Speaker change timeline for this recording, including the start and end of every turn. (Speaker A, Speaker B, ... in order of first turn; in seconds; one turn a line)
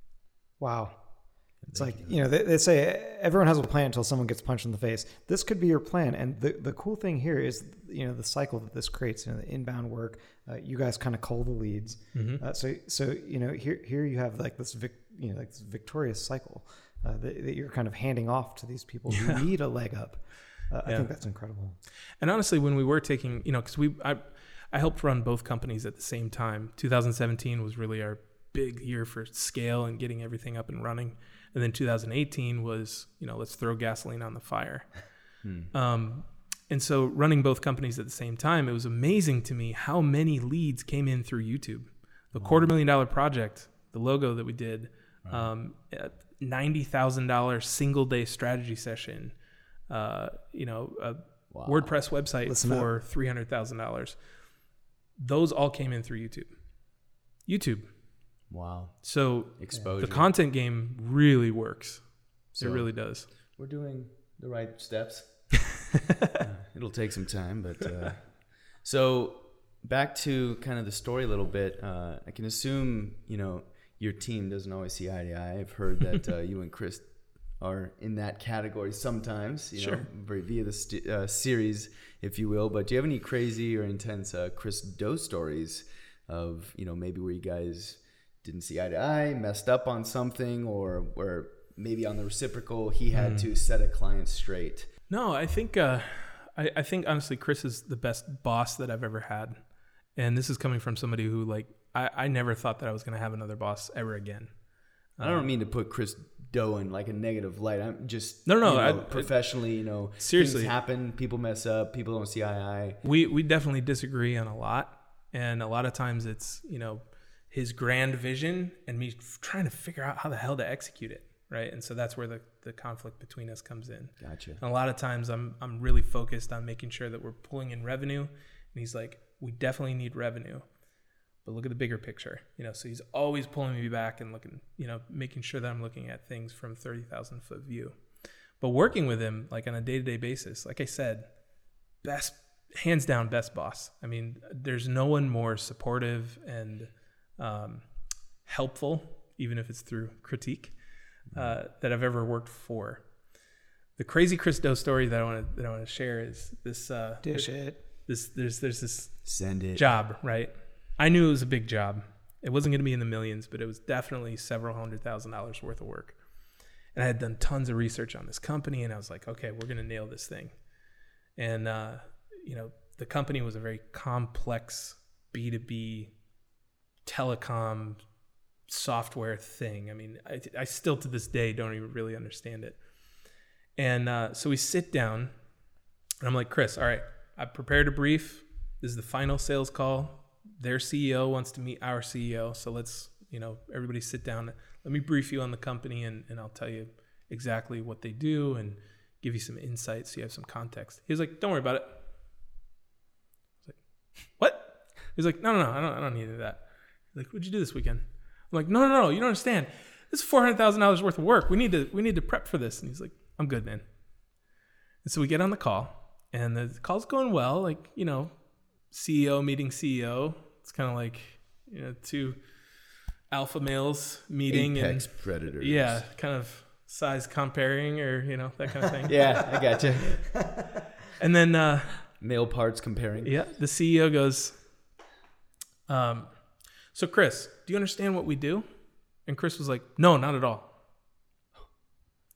Speaker A: 0.6-1.0
Speaker B: 1.6-2.1
Speaker A: 1.7-21.8
Speaker C: 12.1-12.4
Speaker C: 19.1-19.4
Speaker C: 20.9-21.1
Speaker C: 22.2-34.9
Speaker B: 35.4-35.7
Speaker C: 35.7-49.4
Speaker B: 42.4-42.7
Speaker C: 49.9-54.2
Speaker B: 51.5-51.9
Speaker A: 52.5-52.9
Speaker C: 55.2-56.5
Speaker C: 57.5-57.9
Speaker B: 58.5-60.3
Speaker C: 59.0-63.3
Speaker B: 62.5-62.9
Speaker B: 63.5-65.7
Speaker B: 66.3-77.1
Speaker B: 77.6-94.9
Speaker C: 79.8-80.1
Speaker C: 93.1-93.5
Speaker C: 95.1-99.6
Speaker C: 100.2-104.5
Speaker C: 105.2-105.5
Speaker B: 105.2-113.0
Speaker C: 108.5-109.3
Speaker C: 110.2-110.7
Speaker C: 113.0-130.7
Speaker B: 124.2-124.6
Speaker C: 131.4-138.0
Speaker C: 138.6-141.3
Speaker C: 142.0-147.9
Speaker C: 148.4-150.8
Speaker C: 151.3-153.1
Speaker C: 154.0-166.2
Speaker A: 157.2-157.8
Speaker B: 159.3-159.9
Speaker C: 166.9-170.6
Speaker C: 171.4-176.2
Speaker C: 177.0-178.0
Speaker C: 178.7-182.8
Speaker C: 183.8-185.3
Speaker C: 186.2-202.0
Speaker C: 203.7-213.8
Speaker C: 215.0-218.3
Speaker C: 218.9-222.4
Speaker C: 223.3-229.3
Speaker B: 224.5-226.0
Speaker B: 229.1-230.2
Speaker A: 229.5-230.8
Speaker C: 231.2-232.0
Speaker B: 232.2-233.4
Speaker C: 233.2-234.6
Speaker C: 235.9-236.3
Speaker C: 236.9-238.7
Speaker C: 239.3-240.7